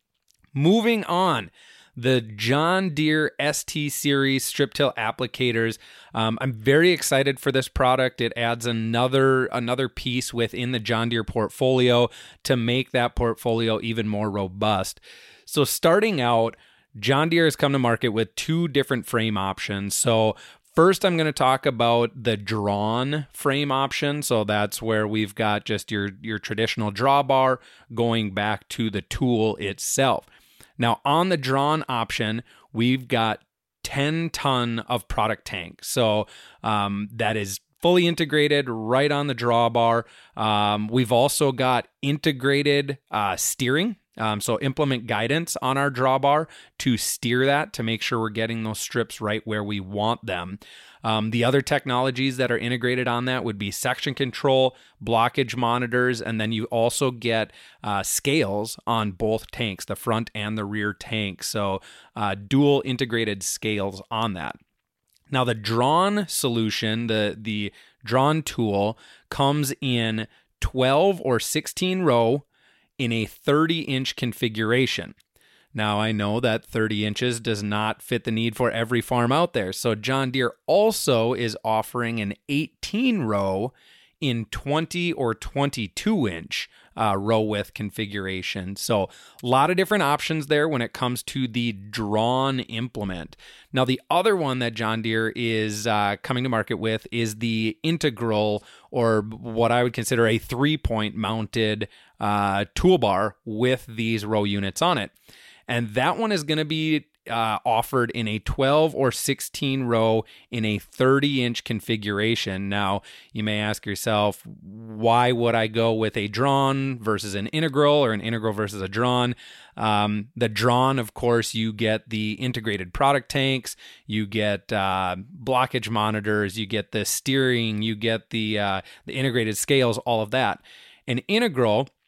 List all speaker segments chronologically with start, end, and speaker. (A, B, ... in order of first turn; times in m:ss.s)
0:00.5-1:04.6 A
1:05.3-1:12.4 A
1:13.0-1:15.1 A
1:15.7-1:45.1 A
1:45.7-2:11.9 A